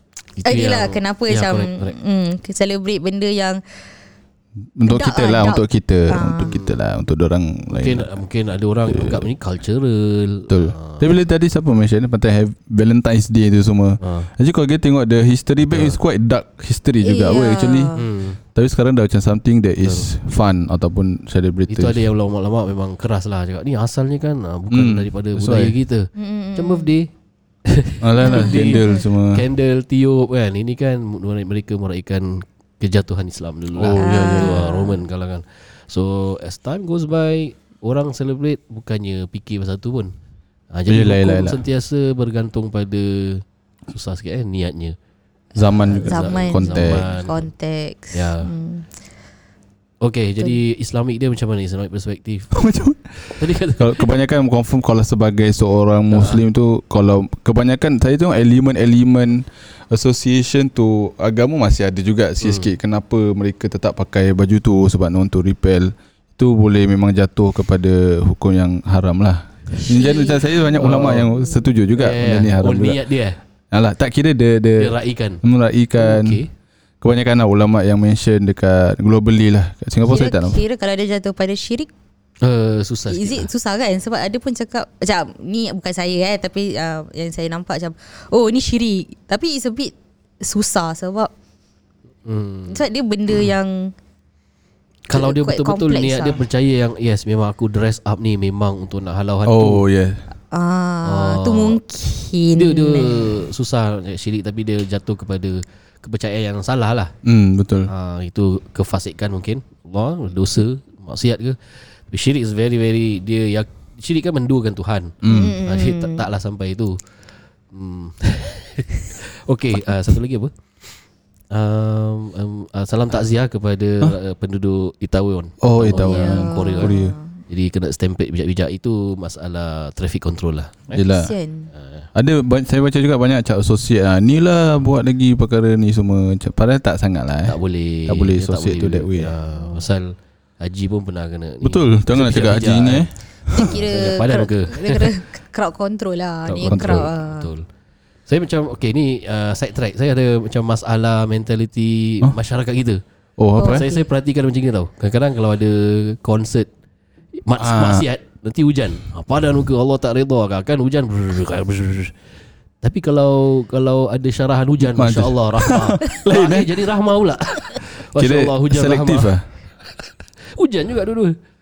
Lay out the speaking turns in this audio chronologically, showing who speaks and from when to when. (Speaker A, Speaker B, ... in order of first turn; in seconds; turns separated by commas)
Speaker A: 0.4-1.9, Speaker B: 0.4-3.6, Speaker C: 4.8-8.1, Speaker B: 4.9-6.5, Speaker A: 6.5-6.8, Speaker A: 7.8-11.0, Speaker C: 8.8-9.3, Speaker C: 10.5-17.9, Speaker A: 14.0-14.3, Speaker A: 15.7-16.0, Speaker B: 17.0-18.0, Speaker A: 17.9-18.4, Speaker C: 18.5-22.0, Speaker A: 19.8-20.1, Speaker A: 21.7-27.1, Speaker C: 24.7-25.7, Speaker B: 26.1-26.9, Speaker A: 27.6-40.1, Speaker C: 28.0-29.4, Speaker B: 28.2-29.0, Speaker C: 33.7-34.6, Speaker B: 34.0-35.0, Speaker A: 40.7-45.0, Speaker C: 40.9-41.6, Speaker C: 45.6-47.0, Speaker B: 45.6-48.9, Speaker A: 45.9-47.5, Speaker A: 48.1-48.5, Speaker A: 50.0-52.6, Speaker C: 52.5-73.0, Speaker A: 53.3-54.1, Speaker A: 56.1-56.4, Speaker A: 62.4-62.7, Speaker B: 69.8-71.6, Speaker A: 70.8-71.3, Speaker A: 72.0-73.4, Speaker C: 73.7-76.4, Speaker A: 74.8-75.4, Speaker A: 76.0-76.5, Speaker C: 77.0-80.6, Speaker B: 80.0-81.9, Speaker A: 82.4-83.5, Speaker B: 83.1-91.3, Speaker A: 92.2-92.8, Speaker B: 92.7-93.9, Speaker A: 95.1-99.8, Speaker B: 95.1-96.4, Speaker C: 99.5-100.2, Speaker B: 100.5-103.5, Speaker A: 101.0-101.8, Speaker A: 102.5-107.1, Speaker C: 107.2-107.9, Speaker A: 107.9-117.0, Speaker C: 115.2-115.5, Speaker B: 115.3-116.2, Speaker A: 117.7-126.9, Speaker C: 125.6-127.1, Speaker B: 125.9-127.4, Speaker A: 127.5-131.0, Speaker C: 130.9-131.3, Speaker B: 131.1-131.7, Speaker A: 131.7-132.1, Speaker C: 132.1-139.3, Speaker A: 137.4-145.1, Speaker B: 139.5-139.8, Speaker C: 141.6-143.7, Speaker B: 143.5-147.5, Speaker A: 146.5-147.7, Speaker C: 146.7-147.1, Speaker A: 148.3-153.0, Speaker C: 153.4-153.8, Speaker B: 153.6-154.1, Speaker A: 153.6-156.7, Speaker A: 157.4-162.1, Speaker C: 157.6-158.1, Speaker A: 162.8-169.3, Speaker C: 164.8-166.7, Speaker C: 168.2-169.4, Speaker A: 170.6-171.3